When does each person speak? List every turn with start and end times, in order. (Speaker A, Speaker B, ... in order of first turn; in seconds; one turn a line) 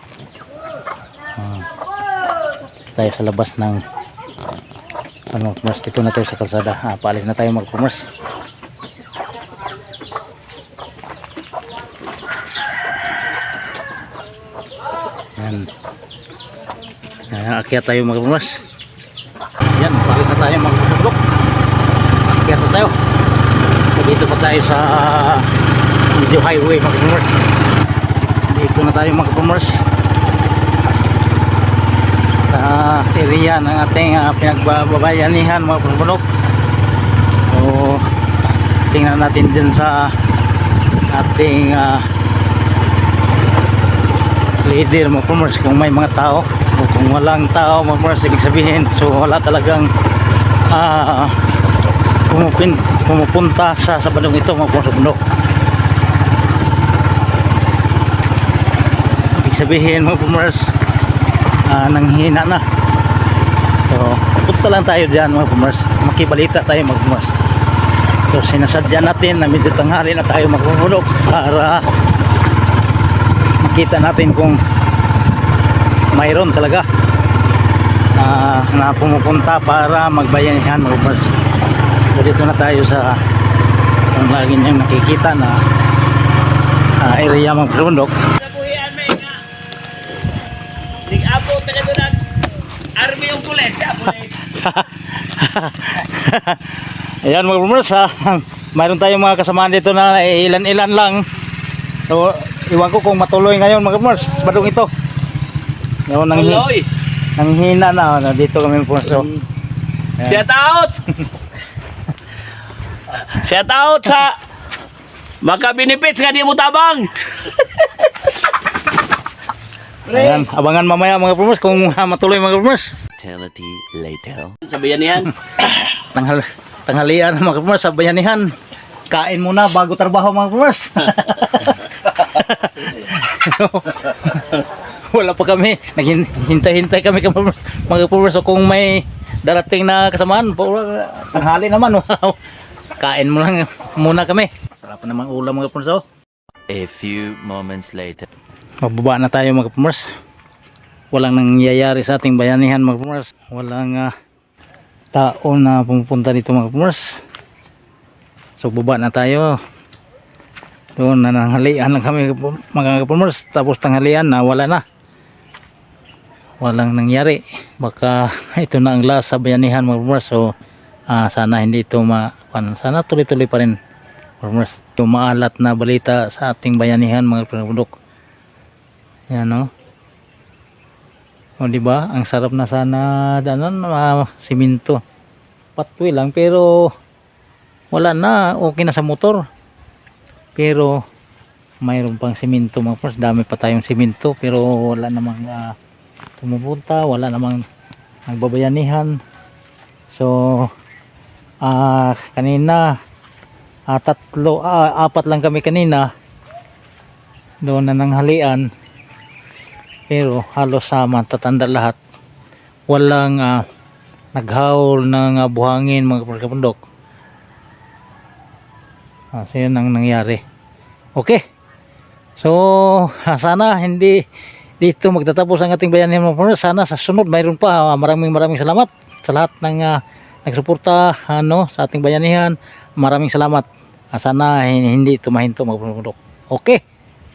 Speaker A: 1.4-1.7
Speaker A: 2.9-3.8
Speaker A: 5.3-8.1
Speaker A: 15.4-15.7
Speaker A: 17.3-18.6
Speaker A: 19.8-21.3
Speaker A: 22.3-22.9
Speaker A: 23.9-25.5
Speaker A: 26.1-27.5
Speaker A: 28.5-29.8
Speaker A: 32.5-36.2
Speaker A: 37.5-38.1
Speaker A: 38.9-40.2
Speaker A: 41.1-42.1
Speaker A: 44.6-49.9
Speaker A: 50.7-51.4
Speaker A: 52.3-55.2
Speaker A: 59.4-60.7
Speaker A: 61.7-62.6
Speaker A: 63.9-67.4
Speaker A: 68.3-71.9
Speaker A: 73.6-74.6
Speaker A: 76.1-76.9
Speaker A: 78.2-81.3
Speaker A: 82.1-83.2
Speaker A: 84.1-85.6
Speaker A: 87.0-88.3
Speaker B: 88.4-89.4
Speaker B: 91.1-92.2
Speaker B: 93.0-94.5
Speaker A: 94.5-101.3
Speaker A: 102.1-104.9
Speaker A: 106.1-106.7
Speaker B: 106.3-106.9
Speaker A: 107.4-109.3
Speaker B: 110.2-111.0
Speaker B: 113.3-114.4
Speaker B: 115.4-117.6
Speaker B: 120.1-120.4
Speaker A: 120.1-122.9
Speaker C: 123.2-124.6
Speaker B: 124.6-125.3
Speaker A: 125.9-128.5
Speaker A: 129.1-142.4
Speaker A: 143.0-146.0
Speaker C: 146.7-148.3
Speaker A: 148.8-150.1
Speaker A: 151.1-154.1
Speaker A: 155.1-157.2
Speaker A: 158.6-159.6
Speaker A: 161.0-164.8
Speaker A: 166.6-170.4
Speaker A: 171.1-173.8
Speaker A: 174.4-177.9
Speaker A: 179.3-179.7
Speaker A: 181.6-185.0
Speaker A: 185.8-186.9
Speaker A: 187.9-189.5
Speaker A: 190.6-191.0
Speaker A: 191.8-195.7
Speaker A: 196.4-197.6
Speaker A: 198.3-199.2
Speaker A: 200.1-200.7
Speaker A: 201.6-202.9
Speaker A: 203.9-206.1
Speaker A: 207.6-208.7
Speaker A: 210.1-212.0
Speaker A: 212.9-213.6
Speaker A: 214.3-216.8
Speaker A: 219.3-220.4
Speaker A: 221.2-221.4
Speaker A: 222.4-224.2
Speaker A: 224.8-236.8